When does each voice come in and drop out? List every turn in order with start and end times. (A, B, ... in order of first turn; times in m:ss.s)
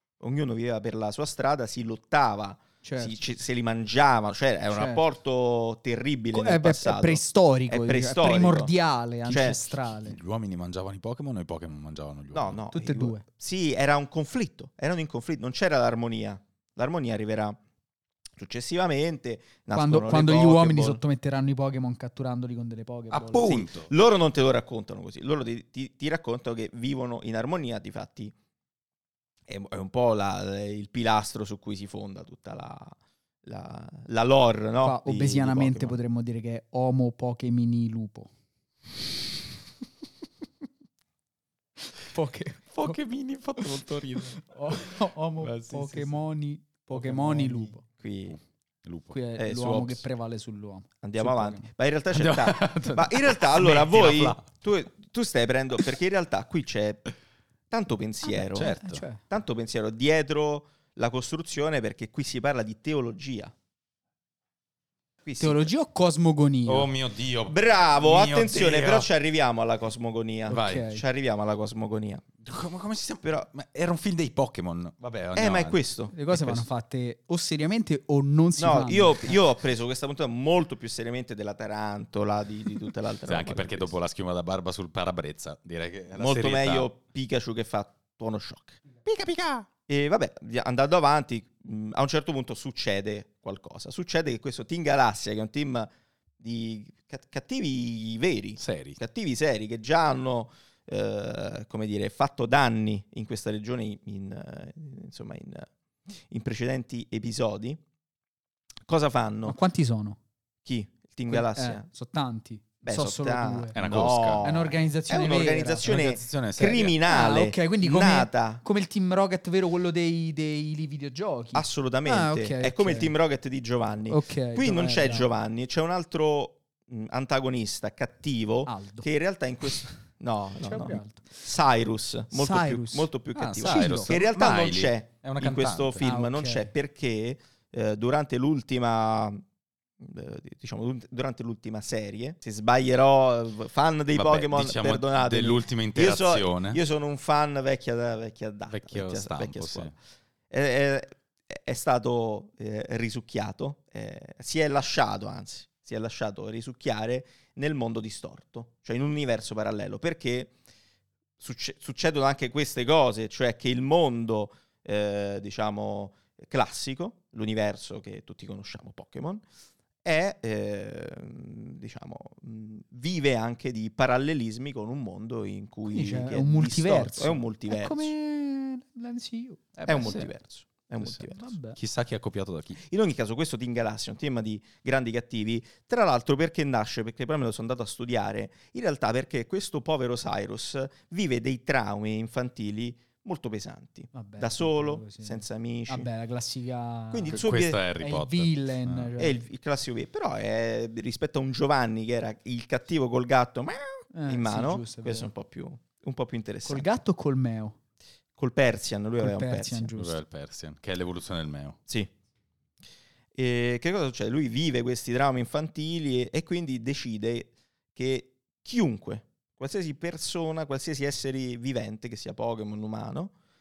0:00.2-0:08.7 A
0:02.8-0:03.2 B
0:04.7-0:05.0 B
0:06.3-0:10.2 B
0:09.2-0:09.6 A
0:09.3-0:12.6 C
0:12.3-0:17.6 A
0:12.7-0:13.2 B
0:18.4-0:21.0 A
0:19.8-0:23.5 B
0:23.1-0:23.9 C
0:23.2-0:28.3 A
0:29.5-0:36.0 A
0:34.8-0:38.3 B
0:42.0-0:43.0 B
0:42.7-0:46.1 C
0:44.4-0:47.8 B
0:46.9-0:47.8 C
0:48.0-0:48.4 A
0:48.3-0:49.2 C
0:49.1-0:51.7 B
0:49.4-0:50.0 A
0:51.0-0:57.1 A
0:52.1-0:54.5 C
0:57.7-1:03.5 A
0:58.3-0:59.2 B
0:58.5-0:59.0 C
1:05.2-1:05.7 A
1:05.4-1:06.9 B
1:06.7-1:09.1 C
1:07.5-1:12.3 A
1:10.5-1:10.9 C
1:10.5-1:11.0 B
1:12.4-1:15.8 C
1:15.4-1:16.6 A
1:16.1-1:19.4 B
1:18.6-1:23.9 A
1:23.3-1:26.9 C
1:26.2-1:28.8 A
1:29.0-1:29.7 C
1:29.9-1:45.7 A
1:38.6-1:39.0 C
1:46.3-1:47.8 A
1:48.9-1:49.6 A
1:49.5-1:50.2 B
1:50.6-1:51.8 A
1:51.3-1:55.9 B
1:52.8-1:58.6 A
1:53.7-1:54.4 C
1:55.8-1:57.0 C
1:57.1-2:03.1 B
2:01.5-2:19.4 A
2:04.1-2:05.3 B
2:08.7-2:09.1 B
2:10.6-2:11.4 B
2:12.3-2:14.2 B
2:13.4-2:16.1 C
2:16.0-2:16.7 B
2:20.0-2:29.9 A
2:24.2-2:26.8 C
2:28.7-2:29.9 C
2:30.5-2:40.5 A
2:41.4-2:49.4 A
2:50.0-2:58.1 A
2:55.9-3:00.3 B
2:59.8-3:00.3 C
2:59.9-3:01.6 A
3:01.3-3:01.8 B
3:01.8-3:02.8 C
3:02.8-3:16.1 A
3:14.1-3:17.4 B
3:17.1-3:17.8 A
3:17.3-3:19.1 C
3:18.0-3:19.4 B
3:19.2-3:26.9 A
3:24.1-3:25.3 B
3:26.6-3:27.8 B
3:28.4-3:29.9 A
3:29.2-3:30.2 B
3:30.0-3:31.8 C
3:33.4-3:43.3 A